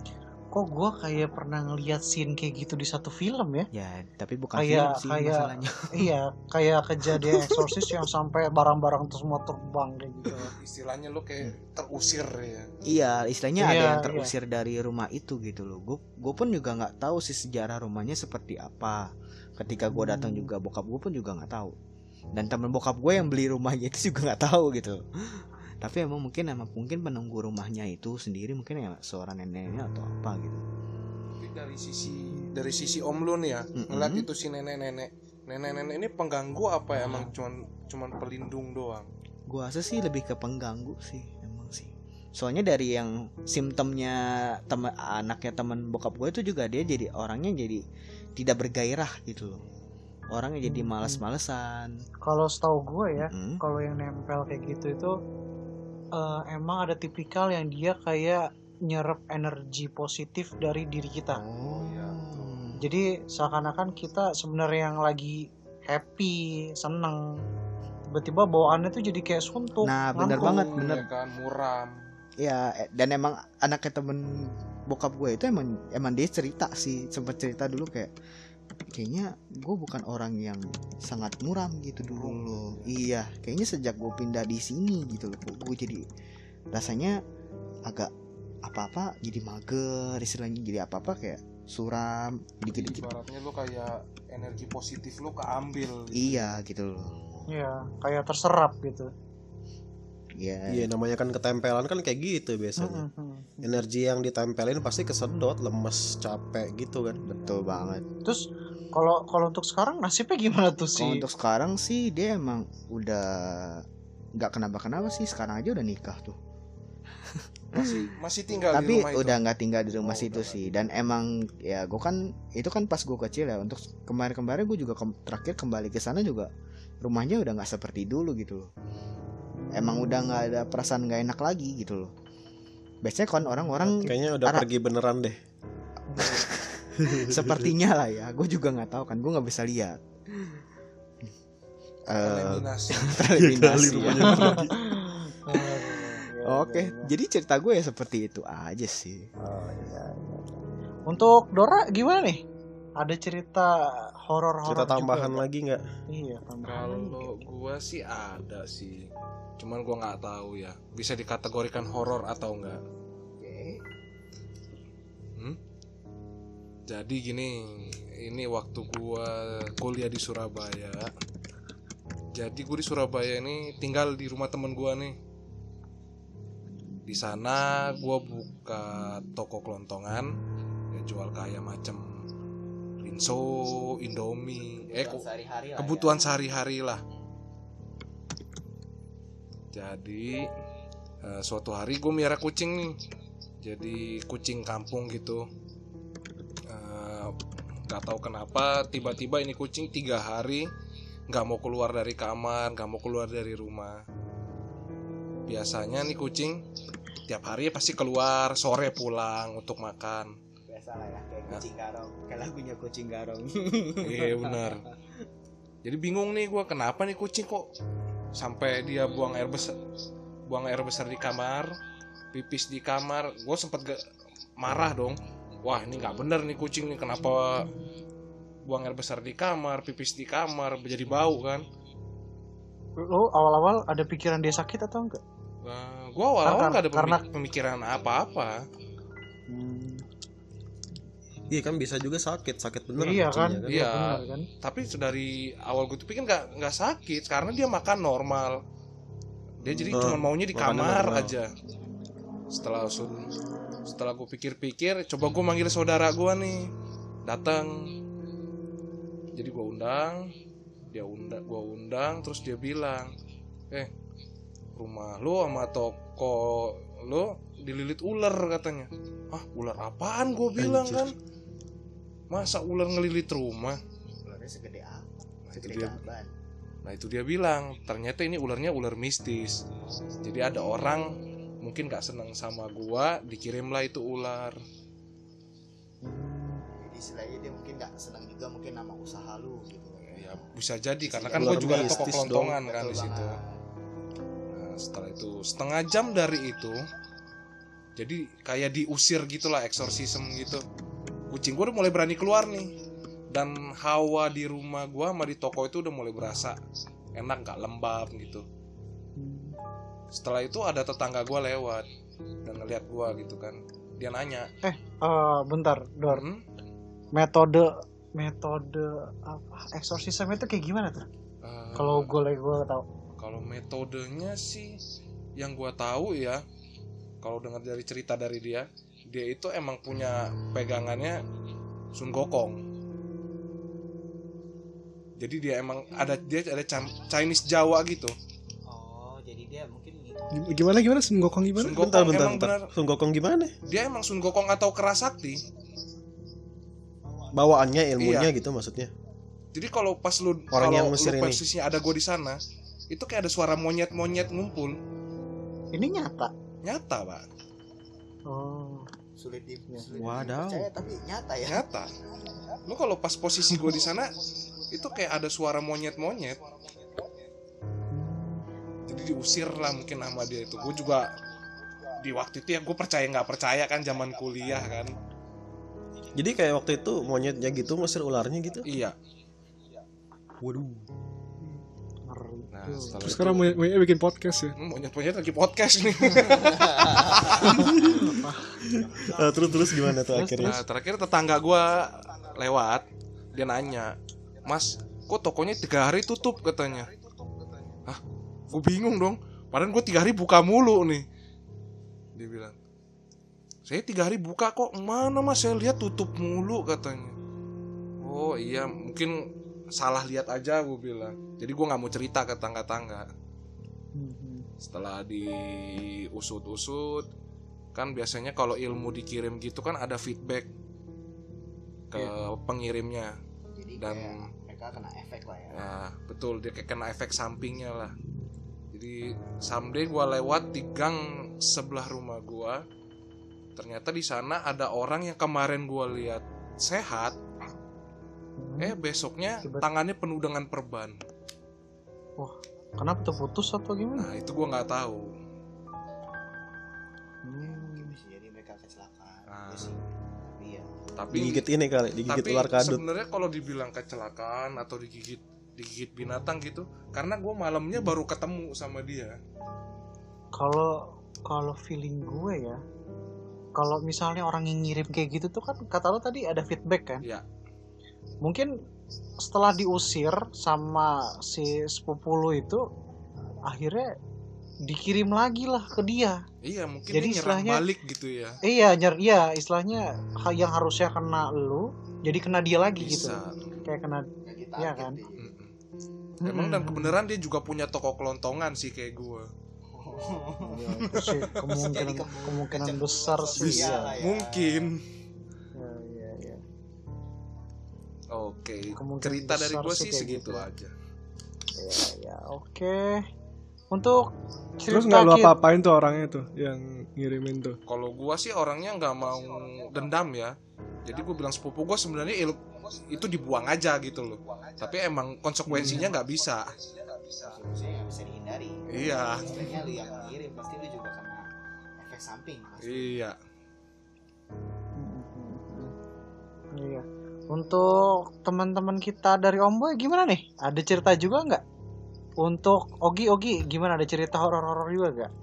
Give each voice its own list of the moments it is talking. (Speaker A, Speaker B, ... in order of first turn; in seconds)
Speaker A: 0.5-3.7, 4.6-10.5, 13.6-14.3, 19.9-20.5, 50.6-51.2, 52.3-55.1, 56.2-61.4, 62.8-67.4, 68.1-70.7, 97.5-99.1, 102.8-103.7, 108.2-111.2, 129.6-130.5, 133.4-134.1, 136.1-136.5, 144.3-147.1, 149.4-152.4, 153.0-155.4, 156.1-157.3, 233.0-235.2, 236.4-237.2, 239.5-240.0, 243.0-244.5, 286.0-286.6, 309.2-309.6, 314.6-316.2, 317.1-321.1, 321.8-322.9, 355.7-356.3, 358.3-358.9, 367.9-368.4, 382.1-383.0, 388.1-388.6, 390.1-390.6, 413.9-414.4, 438.4-438.7, 442.2-444.1, 447.2-447.9, 460.4-462.6, 463.6-467.1, 468.2-468.5, 469.2-472.7, 473.5-473.9, 474.7-476.2, 476.9-477.6, 478.4-485.0, 486.2-487.0, 490.4-494.0, 495.6-496.4, 498.8-500.5, 501.6-503.0, 503.7-504.1, 504.6-505.3, 524.8-525.7, 526.5-531.4, 532.2-535.1
Speaker B: 3.7-5.8, 12.9-21.8, 22.3-30.6, 33.8-34.3, 39.5-47.8, 48.4-49.6, 50.3-52.0, 53.2-53.6, 61.3-62.8, 69.8-71.1, 72.4-78.1, 78.9-86.0, 86.7-87.2, 87.9-88.1, 88.6-93.1, 96.1-97.2, 100.4-100.9, 107.2-108.0, 111.0-113.8, 114.4-116.4, 117.2-118.1, 118.7-126.5, 127.0-128.7, 129.7-132.1, 133.0-134.7, 136.2-140.6, 142.1-144.7, 145.5-145.9, 146.4-149.3, 163.4-163.8, 184.9-186.3, 210.7-214.8, 274.2-276.3, 286.7-290.5, 291.0-293.6, 338.7-340.3, 359.2-361.6, 423.6-425.7, 447.4-450.7, 484.2-485.3, 489.7-490.9, 491.5-494.6, 517.2-523.0
Speaker C: 10.6-12.7, 31.4-39.1, 61.6-62.5, 70.3-72.0, 82.0-82.9, 92.7-96.6, 117.7-120.8, 142.2-144.1, 156.6-162.8, 166.9-171.1, 172.3-175.2, 177.1-180.3, 180.9-182.1, 183.0-185.2, 185.8-187.0, 189.7-190.5, 191.2-193.0, 193.6-195.4, 196.7-197.3, 197.9-200.7, 201.3-204.0, 205.5-206.6, 207.3-210.3, 214.0-214.8, 215.8-217.7, 218.3-219.7, 220.5-221.7, 222.3-224.0, 224.6-227.7, 228.7-231.7, 235.6-238.6, 243.7-248.6, 249.6-251.5, 252.5-253.3, 253.9-256.7, 257.2-257.9, 259.4-260.3, 260.9-263.1, 264.8-271.1, 272.3-273.8, 275.5-276.0, 276.9-279.6, 280.2-284.6, 290.1-293.4, 294.5-296.8, 298.0-300.6, 301.3-302.7, 303.3-306.6, 307.2-308.4, 310.1-311.9, 312.5-314.5, 316.1-316.4, 321.4-322.1, 323.2-324.8, 325.4-326.4, 327.2-331.2, 331.9-332.6, 335.2-338.1, 341.6-342.7, 343.7-345.4, 348.0-348.3, 349.5-352.4, 352.9-354.8, 356.6-357.2, 361.5-361.9, 362.6-364.1, 364.7-366.4, 368.9-371.1, 372.0-374.9, 378.7-379.0, 382.5-383.6, 384.6-387.6, 390.4-393.9, 394.4-396.9, 397.9-401.1, 402.2-402.6, 403.7-407.1, 408.0-413.1, 414.6-417.1, 417.8-420.5, 421.9-423.1, 423.8-424.2, 425.5-427.9, 428.7-432.6, 433.6-437.1, 438.6-441.0, 444.0-445.1, 449.3-449.8, 451.0-451.5, 452.1-459.2, 476.4-478.4, 482.8-483.7, 485.2-485.5, 486.3-489.3, 490.9-491.4, 493.4-494.8, 498.1-500.7, 507.7-510.3, 510.9-516.5, 518.7-519.5, 522.6-523.2
Speaker D: 100.7-103.0, 103.6-107.2, 134.0-135.4, 137.0-137.7, 143.2-144.7, 154.7-155.8, 241.5-243.8, 249.9-251.3, 270.6-271.0, 291.4-292.5, 341.7-343.5, 347.3-348.9, 350.5-351.4, 359.9-360.7, 376.1-378.7, 380.4-380.9, 387.4-388.1, 388.7-390.6, 451.1-452.8
Speaker E: 340.3-341.8, 383.0-384.6, 504.7-507.6, 515.5-515.9